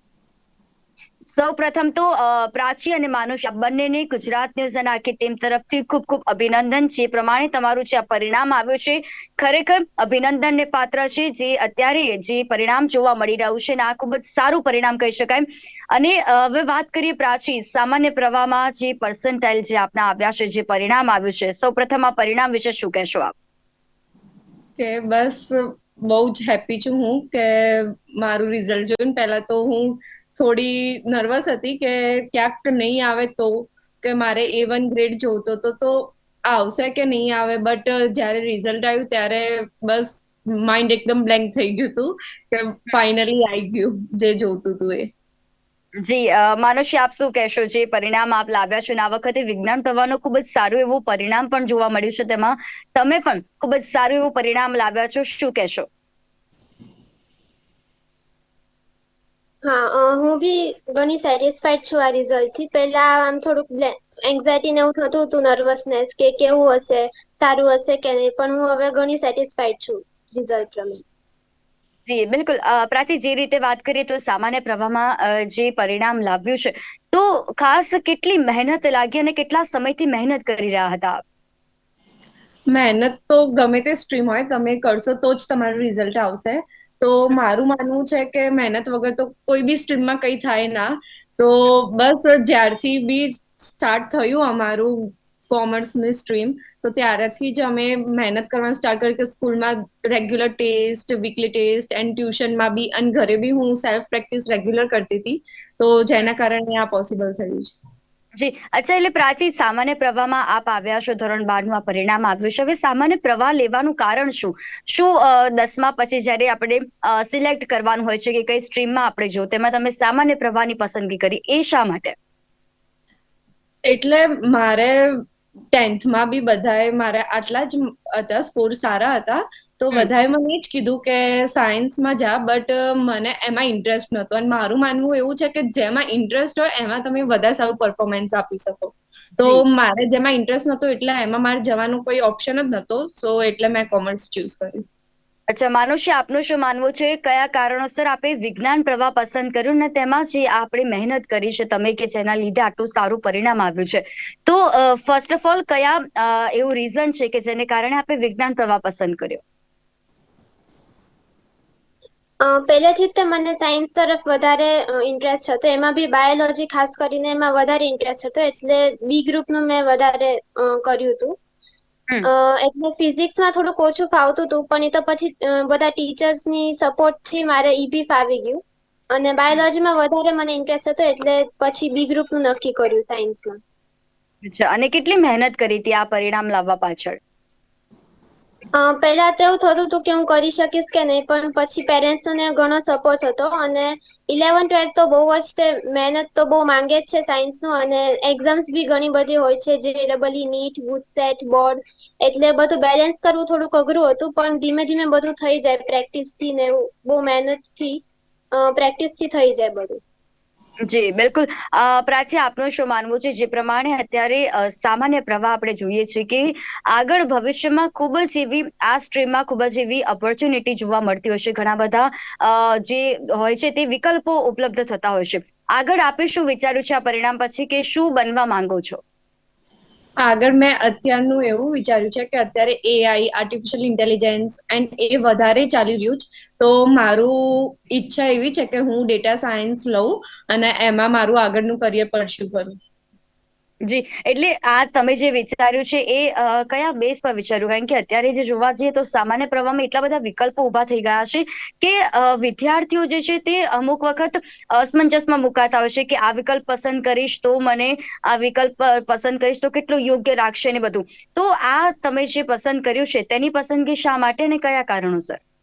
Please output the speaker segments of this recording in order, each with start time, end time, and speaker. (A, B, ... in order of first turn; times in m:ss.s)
0:01.3-0:23.3 A
0:24.8-0:45.1 B
0:46.0-0:55.9 A
0:59.6-1:11.0 C
1:12.1-1:21.2 A
1:22.7-1:47.8 B
1:48.4-2:02.2 A
2:03.8-2:24.8 B
2:25.5-2:39.4 A
2:42.4-2:51.4 C
2:52.2-3:03.6 C
3:04.4-3:07.2 A
3:08.8-3:28.0 C
3:28.5-3:30.0 C
3:30.9-3:49.0 A
3:50.2-4:02.8 B
4:03.9-4:25.4 A